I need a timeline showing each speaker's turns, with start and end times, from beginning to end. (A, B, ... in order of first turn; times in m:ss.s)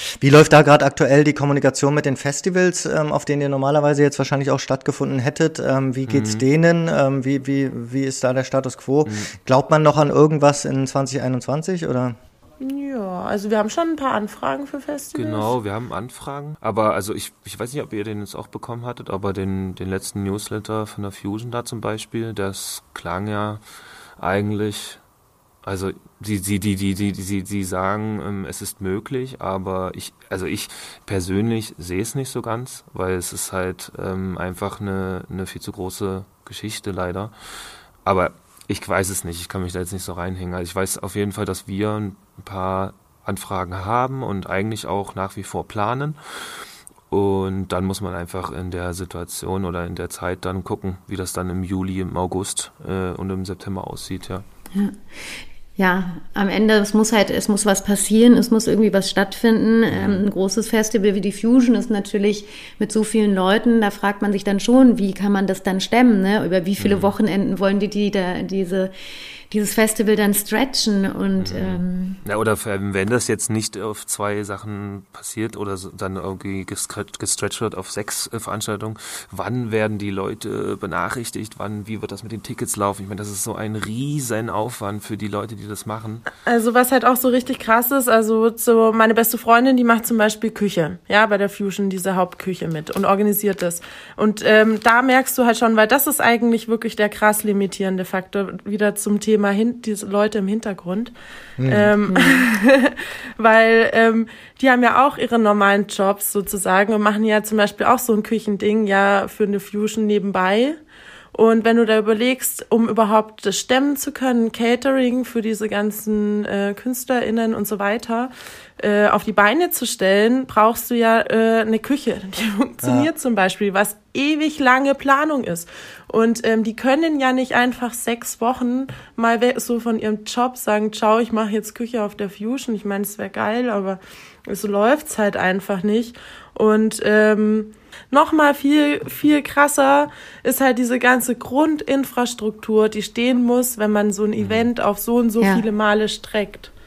0:00.2-0:12.2 A
0:06.1-0:06.4 B
0:09.0-0:09.3 B
0:12.6-0:15.5 C
0:15.2-0:23.6 B
0:24.2-0:25.0 B
0:25.6-0:37.3 B
0:38.0-0:54.4 B
0:54.7-1:08.9 D
0:59.9-1:00.2 B
1:06.8-1:07.1 B
1:09.5-1:12.2 D
1:11.4-1:26.2 B
1:26.5-1:41.1 C
1:41.6-1:41.9 A
1:41.7-1:50.8 C
1:42.1-1:42.4 D
1:51.3-2:26.7 C
2:02.8-2:03.1 A
2:24.4-2:24.7 B
2:25.4-2:25.7 D